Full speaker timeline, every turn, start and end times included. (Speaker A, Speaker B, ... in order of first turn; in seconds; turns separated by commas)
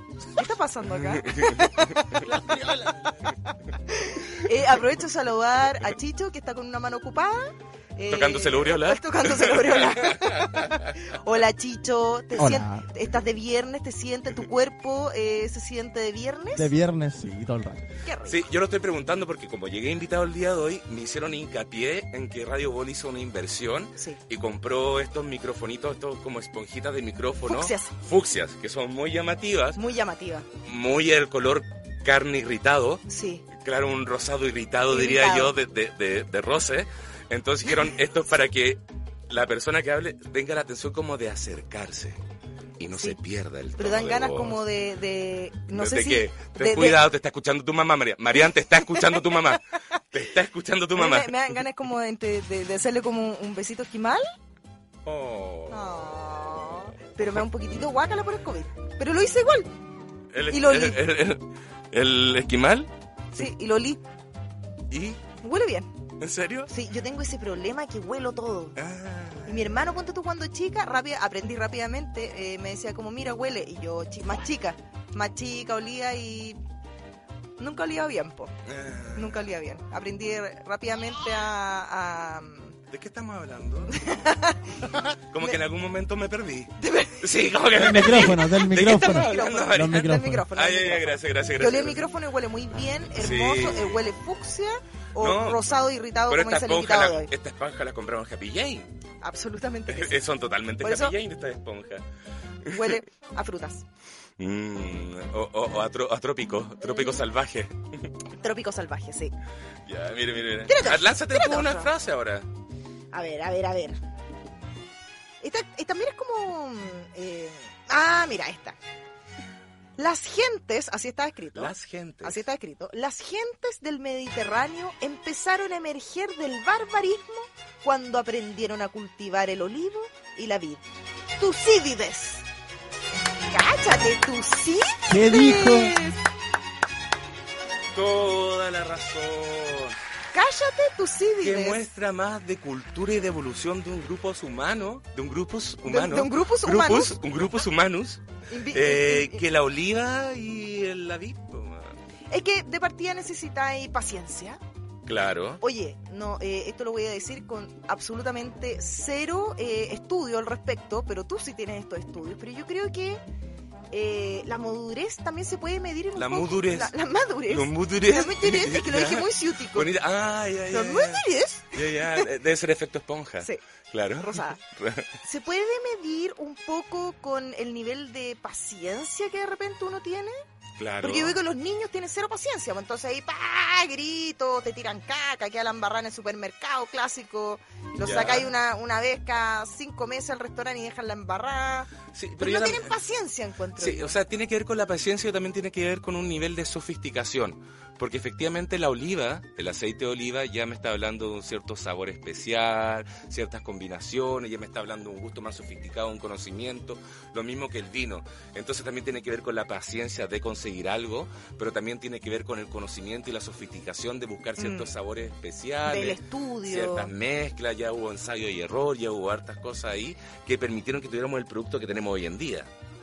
Speaker A: 0.3-16.7, Speaker B: 0.9-2.4, Speaker B: 8.1-10.9, Speaker C: 12.3-12.9, Speaker C: 16.5-17.8, Speaker A: 18.0-18.4, Speaker B: 18.3-29.8, Speaker A: 27.4-27.9, Speaker A: 29.8-30.5, Speaker B: 30.6-42.2, Speaker A: 33.1-33.4, Speaker A: 34.9-35.5, Speaker B: 42.8-44.6, Speaker A: 42.9-43.2, Speaker A: 43.8-47.0, Speaker B: 45.7-51.6, Speaker A: 48.4-49.4, Speaker A: 50.9-54.2, Speaker B: 55.0-55.8, Speaker A: 55.7-59.7, Speaker B: 60.3-63.5, Speaker A: 60.5-61.0, Speaker A: 63.3-64.0, Speaker B: 64.9-65.2, Speaker A: 65.4-65.9, Speaker B: 66.2-66.7, Speaker A: 66.7-68.8, Speaker B: 68.8-69.7, Speaker A: 69.4-76.6, Speaker A: 77.6-78.5, Speaker B: 78.7-79.5, Speaker A: 79.1-82.8, Speaker B: 82.9-84.1, Speaker A: 83.9-85.6, Speaker B: 85.3-92.0, Speaker A: 86.8-87.3, Speaker C: 87.7-90.5, Speaker A: 87.9-97.3, Speaker B: 93.1-94.0, Speaker B: 95.2-95.8, Speaker B: 96.3-98.9, Speaker A: 99.2-100.2, Speaker B: 99.9-102.0, Speaker A: 100.8-101.2, Speaker B: 102.6-103.0, Speaker A: 102.7-103.8, Speaker B: 104.4-108.1, Speaker A: 106.8-107.2, Speaker A: 108.3-109.3, Speaker B: 109.8-112.5, Speaker A: 110.7-111.9, Speaker A: 113.1-114.0, Speaker A: 115.4-118.8, Speaker A: 120.0-130.8, Speaker B: 121.5-122.4, Speaker A: 131.4-132.4, Speaker A: 133.5-136.2, Speaker C: 135.1-136.0, Speaker B: 137.9-140.0, Speaker A: 140.3-141.8, Speaker B: 141.4-151.9, Speaker A: 145.8-147.2, Speaker A: 148.5-149.4, Speaker A: 152.3-154.6, Speaker B: 155.1-155.6, Speaker A: 155.6-163.2, Speaker A: 163.9-169.9, Speaker B: 166.1-175.1, Speaker A: 170.7-172.3, Speaker A: 174.2-174.6, Speaker A: 175.2-180.3, Speaker B: 180.8-181.4, Speaker A: 181.0-194.2, Speaker B: 188.0-188.5, Speaker B: 192.1-192.9, Speaker B: 193.8-222.7, Speaker A: 214.6-214.9, Speaker A: 215.8-217.1